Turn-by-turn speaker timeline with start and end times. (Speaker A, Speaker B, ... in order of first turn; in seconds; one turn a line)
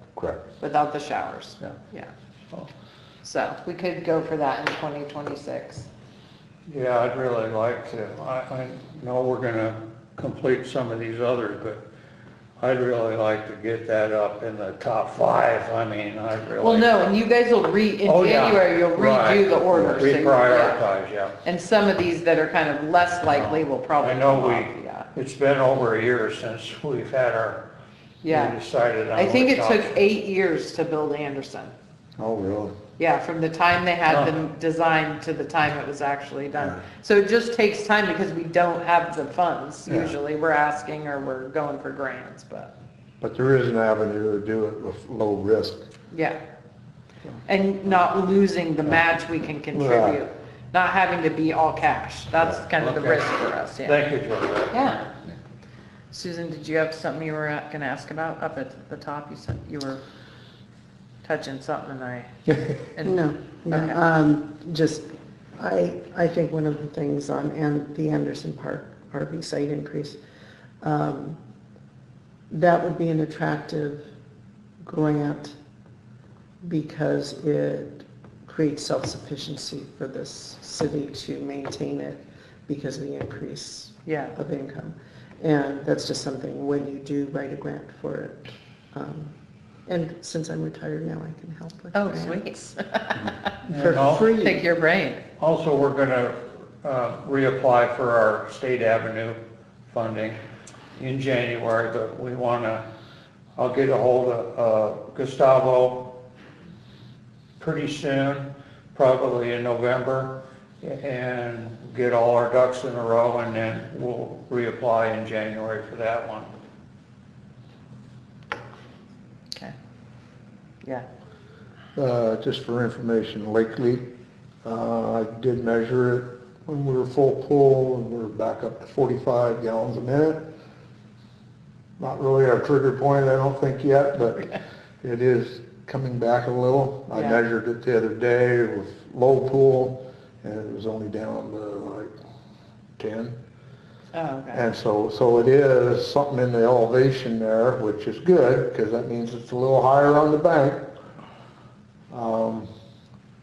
Speaker A: 0.2-0.4
Speaker B: 0.6-2.1
Speaker B: 3.2-5.9
Speaker C: 6.7-11.8
Speaker C: 12.6-16.9
Speaker B: 16.6-20.8
Speaker C: 18.0-21.4
Speaker B: 21.4-25.1
Speaker C: 23.3-27.6
Speaker B: 28.2-28.6
Speaker C: 28.3-29.9
Speaker B: 29.1-31.7
Speaker A: 32.2-32.7
Speaker B: 33.0-42.7
Speaker C: 34.1-34.3
Speaker A: 39.9-40.1
Speaker A: 43.2-45.8
Speaker B: 46.1-46.4
Speaker B: 47.5-54.0
Speaker A: 49.7-50.2
Speaker C: 52.7-53.3
Speaker C: 53.8-55.0
Speaker B: 54.7-55.1
Speaker B: 56.1-60.0
Speaker B: 61.2-64.0
Speaker D: 63.0-70.2
Speaker D: 70.8-71.4
Speaker D: 72.5-74.0
Speaker D: 74.8-75.5
Speaker D: 76.6-89.3
Speaker B: 84.0-84.3
Speaker D: 89.9-92.4
Speaker B: 91.9-93.3
Speaker C: 93.7-94.4
Speaker D: 93.7-94.6
Speaker B: 94.3-95.2
Speaker C: 95.4-100.4
Speaker C: 101.0-102.8
Speaker C: 103.6-106.2
Speaker C: 107.6-116.5
Speaker A: 121.9-124.1
Speaker A: 124.6-130.5
Speaker A: 132.0-142.1
Speaker B: 137.1-137.4
Speaker A: 143.0-143.4
Speaker B: 144.1-144.6
Speaker A: 144.5-150.9
Speaker A: 152.1-152.7